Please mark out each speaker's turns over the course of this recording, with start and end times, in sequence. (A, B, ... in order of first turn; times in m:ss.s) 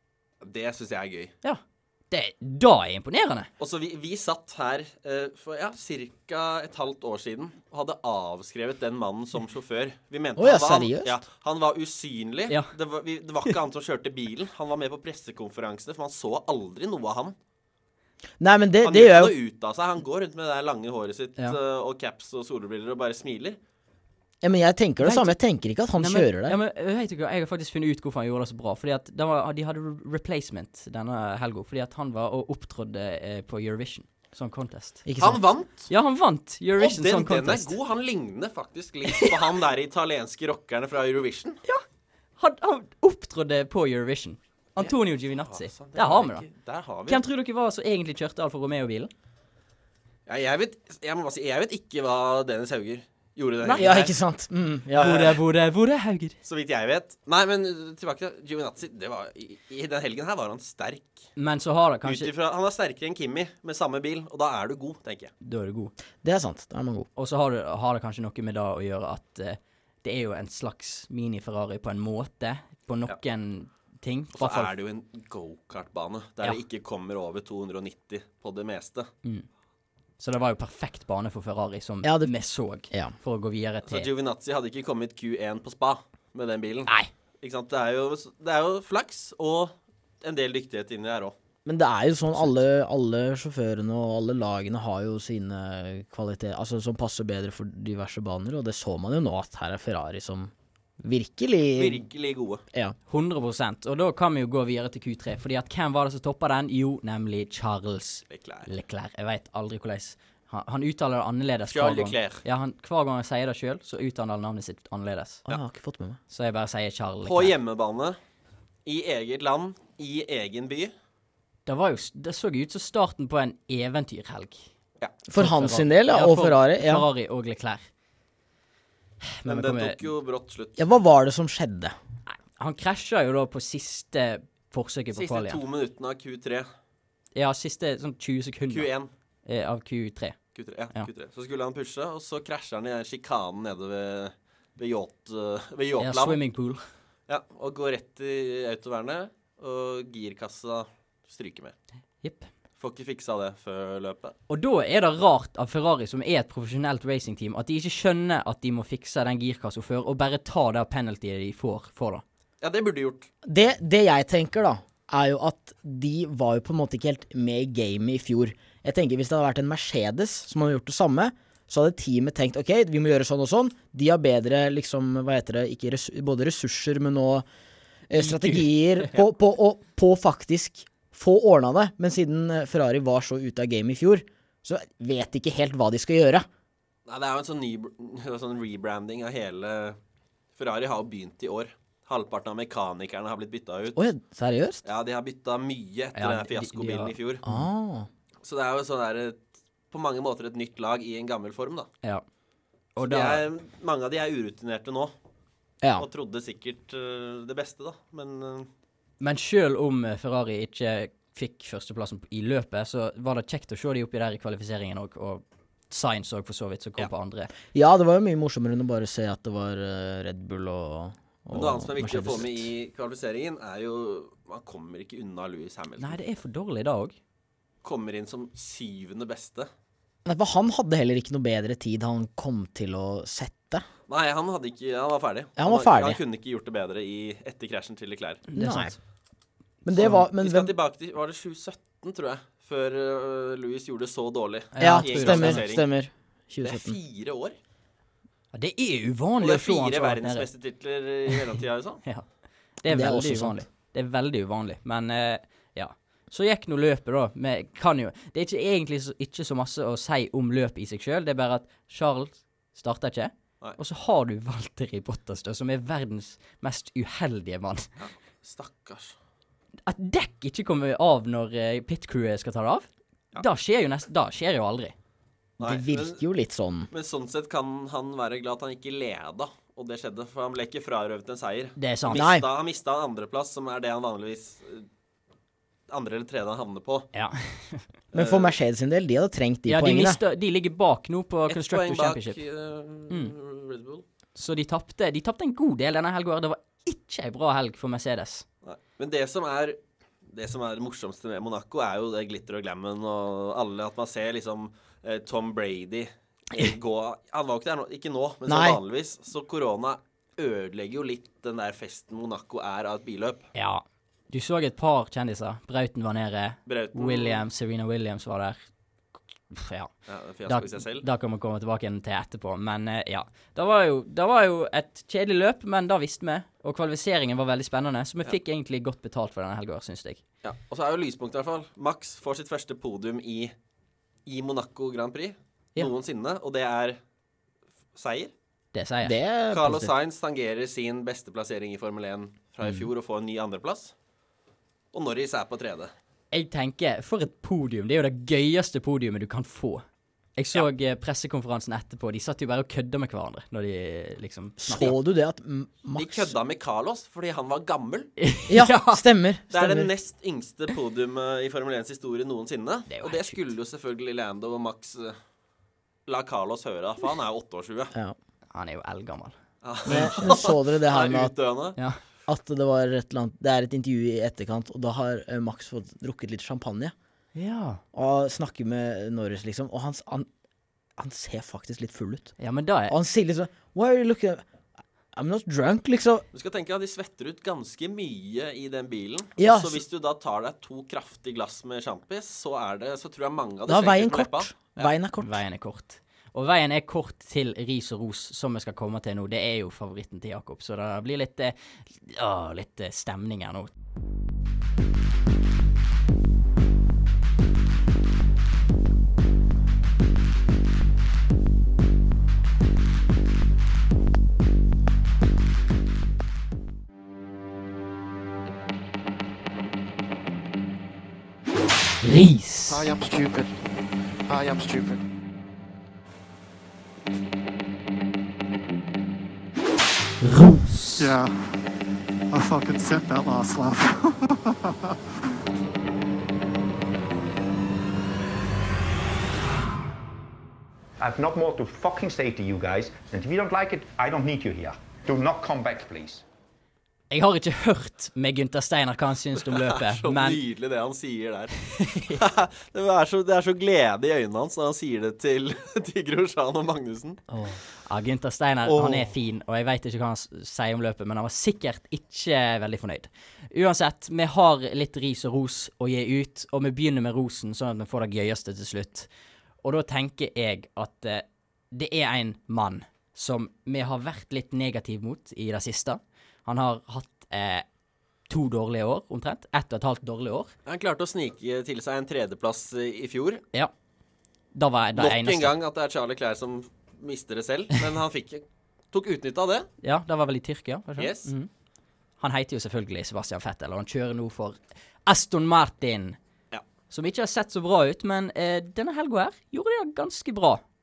0:00.4-0:01.3 A
0:01.4-0:03.5 B
0:03.6-0:17.4 A
0:10.4-0:11.2 C
0:18.4-0:19.4 C
0:18.8-0:23.6 A
0:24.4-0:26.6 C
0:25.0-0:25.4 B
0:26.0-0:35.0 B
0:35.0-0:35.4 C
0:35.2-0:35.9 A
0:35.9-0:37.8 B
0:36.8-0:41.6 A
0:42.4-0:46.5 B
0:45.5-0:47.2 A
0:47.1-0:49.1 B
0:50.3-0:54.1 A
0:53.6-0:54.0 B
0:53.7-0:55.3 C
0:55.0-0:56.4 B
0:55.0-0:55.4 A
0:56.4-1:01.3 A
1:01.4-1:02.3 B
1:02.0-1:05.3 A
1:05.4-1:05.9 B
1:06.2-1:07.1 C
1:07.2-1:14.7 B
1:14.3-1:19.1 A
1:20.2-1:24.1 B
1:22.0-1:22.3 C
1:23.9-1:26.9 A
1:27.4-1:31.4 A
1:31.6-1:42.0 C
1:41.8-1:42.6 A
1:43.1-1:55.4 B
1:48.3-1:48.7 A
1:51.7-1:52.4 A
1:55.5-1:56.2 C
1:56.3-1:57.5 B
1:57.2-1:58.2 A
1:58.8-2:00.9 A
2:01.7-2:04.7 B
2:05.3-2:07.1 C
2:05.4-2:07.9 B
2:09.2-2:10.0 B
2:09.5-2:10.8 A
2:10.8-2:11.9 C
2:12.2-2:15.6 B
2:15.2-2:16.7 A
2:17.4-2:18.9 B
2:18.7-2:19.1 A
2:19.5-2:20.4 B
2:20.6-2:26.4 A
2:26.0-2:26.8 B
2:27.3-2:31.7 A
2:32.2-2:32.5 B
2:32.8-2:34.3 A
2:34.5-2:42.2 B
2:42.6-2:43.3 A
2:43.4-2:57.5 C
2:58.1-3:06.5 C
2:58.2-2:58.7 B
3:07.1-3:10.0 A
3:10.6-3:14.1 A
3:14.0-3:14.8 C
3:14.8-3:17.4 A
3:16.1-3:17.6 B
3:17.4-3:18.1 C
3:18.4-3:19.4 A
3:19.9-3:21.9 A
3:23.0-3:23.5 B
3:23.0-3:25.1 A
3:26.0-3:28.7 A
3:29.2-3:37.5 B
3:37.7-3:42.7 C
3:41.5-3:46.2 A
3:46.0-3:47.2 B
3:47.8-3:49.7 A
3:50.2-3:53.8 C
3:54.1-3:58.4 A
3:55.6-3:56.2 C
3:58.5-3:59.0 B
3:58.6-3:58.9 C
3:59.8-4:00.7 C
3:59.9-4:05.8 A
4:04.7-4:05.6 B
4:04.8-4:07.0 C
4:06.6-4:07.6 A
4:08.5-4:10.5 B
4:09.4-4:12.0 A
4:12.8-4:27.9 B
4:12.9-4:13.6 C
4:28.0-4:29.1 A
4:29.9-4:34.9 B
4:35.6-4:36.2 A
4:35.6-4:36.9 C
4:36.9-4:44.9 A
4:41.8-4:42.2 B
4:42.1-4:42.5 C
4:45.9-4:47.1 A
4:47.1-4:47.9 B
4:48.1-4:48.5 A
4:48.1-4:50.2 C
4:49.7-4:52.4 B
4:51.5-4:54.0 A
4:54.4-4:58.4 B
4:58.6-5:13.5 A
5:08.5-5:08.8 C
5:13.6-5:18.6 B
5:16.6-5:17.4 A
5:19.5-5:19.9 B
5:20.1-5:21.1 A
5:20.5-5:30.2 B
5:30.4-5:33.5 A
5:34.2-5:37.0 A
5:38.0-5:38.3 A
5:38.7-5:39.2 B
5:39.0-5:39.9 C
5:39.5-5:43.9 A
5:44.9-5:45.9 A
5:46.3-5:49.8 B
5:50.4-5:55.0 B
5:54.6-5:56.3 C
5:56.0-5:58.1 A
5:58.2-5:59.0 B
5:58.5-5:59.9 C
5:59.5-6:05.2 A
6:02.9-6:03.5 B
6:06.1-6:07.9 A
6:08.5-6:09.4 B
6:09.6-6:11.8 A
6:09.9-6:11.3 C
6:09.9-6:10.1 B
6:12.3-6:16.9 C
6:17.4-6:17.8 B
6:17.9-6:20.3 C
6:21.0-6:22.4 C
6:22.4-6:23.0 B
6:22.9-6:24.4 C
6:25.1-6:26.2 C
6:26.3-6:34.9 A
6:29.4-6:29.8 C
6:33.7-6:35.4 C
6:35.2-6:43.7 B
7:02.0-7:02.9 B
7:02.7-7:03.5 D
7:04.3-7:05.0 D
7:10.2-7:11.1 B
7:11.0-7:11.3 D
7:12.3-7:14.1 D
7:21.0-7:26.2 E
7:27.1-7:30.4 B
7:29.5-7:31.6 A
7:31.7-7:32.2 B
7:32.1-7:37.2 A
7:37.3-7:37.6 C
7:37.9-7:49.1 B
7:38.6-7:39.1 A
7:49.6-7:57.6 B
7:58.3-8:00.5 B
8:00.6-8:03.4 A
8:04.5-8:05.5 B
8:05.0-8:09.7 A
8:09.8-8:11.5 B
8:11.0-8:11.3 A
8:12.2-8:16.2 B
8:16.9-8:20.6 B